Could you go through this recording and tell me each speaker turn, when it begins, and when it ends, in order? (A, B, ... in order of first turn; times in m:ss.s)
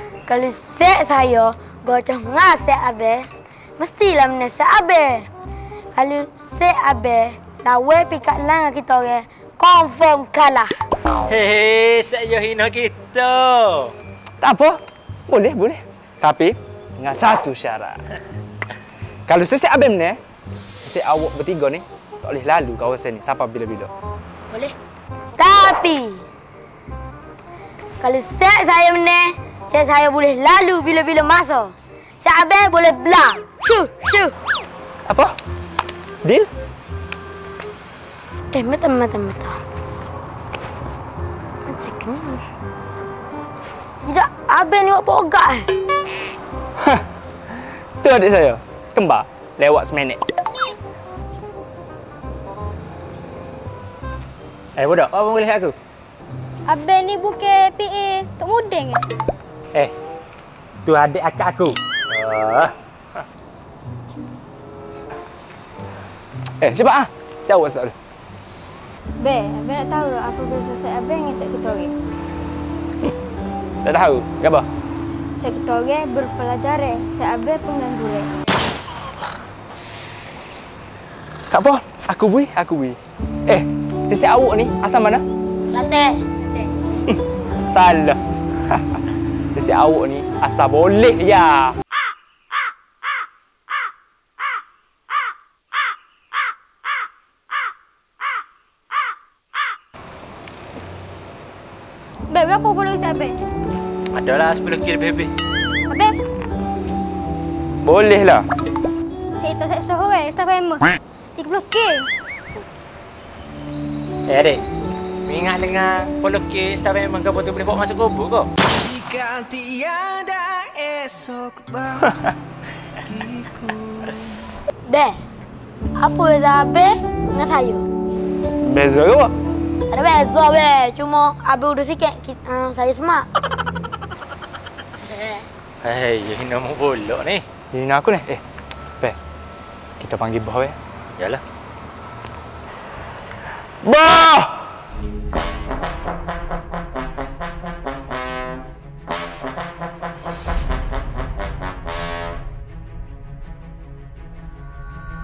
0:00.3-0:05.3 A
0:06.0-0:10.7 A
0:11.3-0:13.9 B
0:14.4-0:18.0 C
0:19.3-0:20.2 C
0:20.8-0:23.9 C
0:25.4-0:26.2 A
0:28.0-0:34.4 A
0:35.1-0:35.3 C
0:38.5-0:39.6 A
0:41.6-0:42.4 A
0:44.0-0:45.7 A
0:48.0-0:50.2 C
0:54.8-0:55.8 B
0:56.7-0:59.0 D
1:00.8-1:02.7 B
1:06.6-1:08.0 C
1:09.2-1:11.9 D
1:13.8-1:14.7 C
1:15.4-1:18.3 D
1:21.5-1:25.2 C
1:25.7-1:26.2 A
1:27.7-1:28.2 C
1:29.6-1:31.8 C
1:42.3-1:43.4 D
1:44.1-1:45.3 B
1:45.9-1:46.2 D
1:47.8-1:48.4 C
1:49.4-1:52.1 D
1:54.3-1:54.6 B
1:55.3-1:58.5 B
1:58.9-2:01.8 E
2:04.9-2:05.2 A
2:06.0-2:07.9 A
2:08.6-2:09.3 C
2:09.9-2:13.3 A
2:15.0-2:15.3 B
2:15.8-2:17.4 B
2:17.7-2:18.4 C
2:20.0-2:20.8 C
2:23.8-2:24.6 C